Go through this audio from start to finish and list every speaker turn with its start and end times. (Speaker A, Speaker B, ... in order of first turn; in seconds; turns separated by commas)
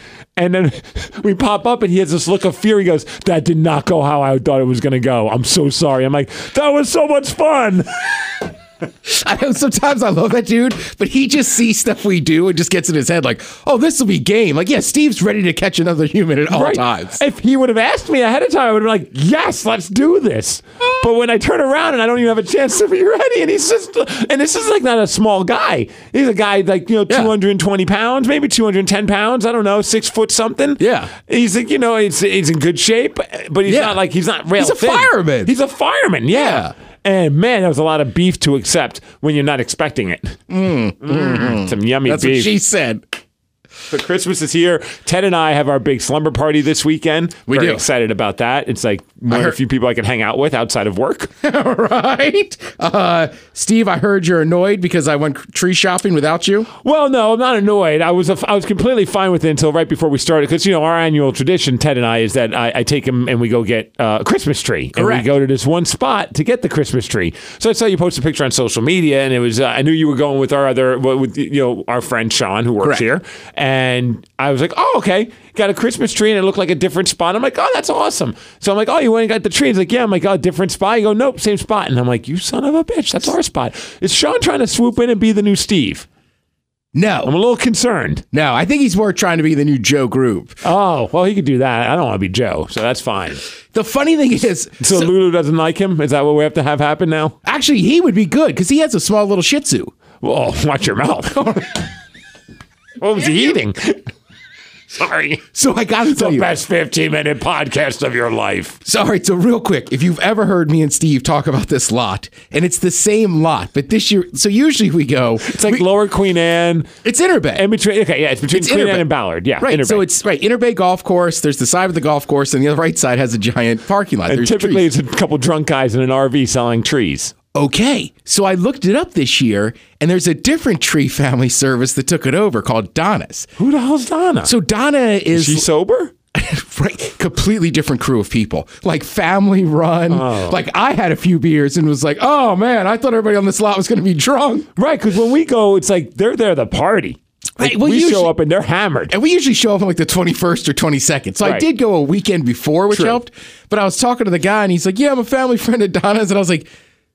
Speaker A: 0.4-7.9, Speaker B: 9.0-17.2, Speaker A: 16.5-40.4, Speaker B: 30.8-31.1, Speaker B: 33.6-34.0, Speaker B: 34.6-35.5, Speaker B: 36.3-36.7, Speaker B: 40.5-43.0, Speaker A: 41.0-42.5, Speaker A: 43.9-51.3, Speaker B: 47.5-47.8, Speaker B: 49.3-49.5, Speaker B: 51.4-56.7, Speaker A: 56.8-86.0, Speaker B: 65.0-65.3, Speaker B: 72.8-73.1, Speaker B: 86.9-87.3, Speaker A: 87.2-88.2, Speaker B: 88.3-90.6, Speaker A: 90.6-93.4, Speaker B: 93.7-95.1, Speaker A: 94.8-97.3, Speaker B: 97.4-99.9, Speaker A: 100.2-101.6, Speaker A: 103.0-104.1, Speaker A: 104.9-105.4, Speaker B: 105.5-106.5, Speaker A: 106.1-108.8, Speaker B: 108.8-115.9, Speaker A: 115.4-116.9, Speaker B: 117.0-117.6, Speaker A: 117.5-120.0, Speaker B: 118.5-119.0, Speaker B: 119.6-124.9, Speaker A: 124.3-127.3, Speaker B: 127.5-133.5, Speaker A: 133.6-134.5, Speaker B: 134.4-135.7, Speaker A: 135.3-136.1, Speaker B: 136.3-144.7, Speaker A: 140.1-140.6, Speaker A: 144.8-149.1, Speaker B: 147.6-148.3, Speaker B: 149.1-156.7, Speaker A: 151.4-151.7, Speaker A: 152.9-153.2